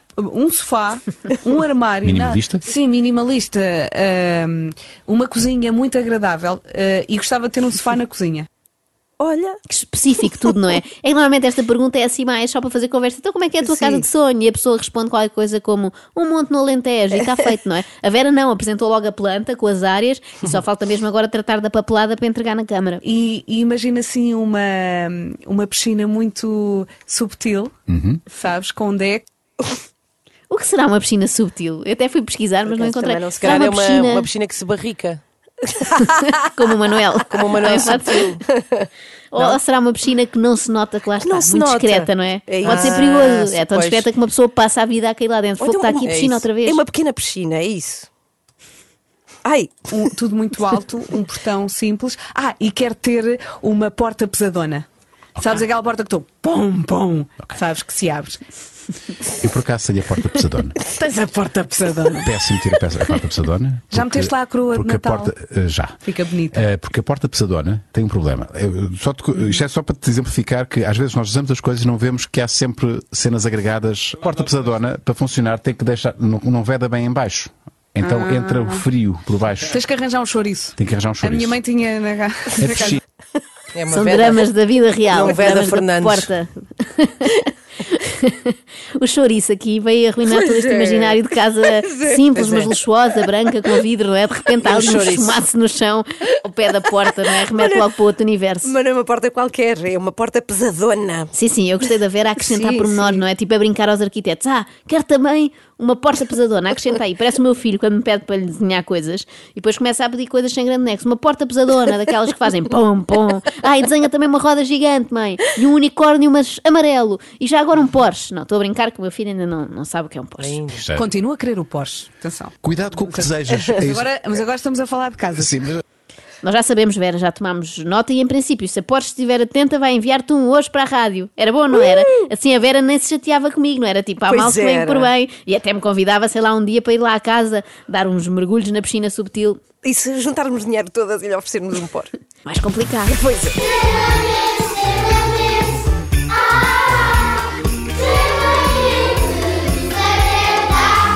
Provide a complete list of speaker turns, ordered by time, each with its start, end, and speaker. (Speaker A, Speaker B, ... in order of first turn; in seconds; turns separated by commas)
Speaker A: 0.2-8.5, Speaker B: 2.0-2.6, Speaker C: 9.2-9.6, Speaker D: 9.7-23.0, Speaker A: 23.0-27.7, Speaker B: 27.9-28.2, Speaker A: 28.3-29.2, Speaker D: 30.5-34.3, Speaker C: 32.6-33.7, Speaker E: 33.4-35.2, Speaker D: 35.7-38.4, Speaker E: 37.3-38.4, Speaker C: 37.4-39.6, Speaker D: 39.3-46.8, Speaker C: 41.2-43.5, Speaker E: 42.6-44.1, Speaker C: 45.6-48.1, Speaker E: 46.0-46.3, Speaker C: 49.4-50.1, Speaker A: 49.9-58.4, Speaker B: 59.3-60.8, Speaker A: 60.8-62.3, Speaker B: 62.2-66.0, Speaker A: 63.9-65.3, Speaker A: 66.0-66.6, Speaker B: 66.5-79.8, Speaker A: 69.3-69.6, Speaker A: 78.0-78.8, Speaker A: 79.7-83.0, Speaker B: 80.8-81.6, Speaker B: 82.6-83.0, Speaker E: 83.7-84.4, Speaker D: 83.9-98.7, Speaker E: 85.1-86.3, Speaker C: 90.3-91.2, Speaker C: 91.7-92.7, Speaker E: 94.7-95.1, Speaker C: 94.8-95.2, Speaker C: 97.3-97.9, Speaker C: 98.6-101.3, Speaker D: 101.3-120.6, Speaker C: 102.5-103.2, Speaker E: 120.4-120.8, Speaker B: 120.7-121.1, Speaker A: 121.0-125.6, Speaker B: 122.6-124.0, Speaker B: 125.4-125.8, Speaker D: 126.4-139.6, Speaker C: 134.3-135.1, Speaker C: 139.8-142.1, Speaker D: 142.4-143.2, Speaker C: 143.1-143.5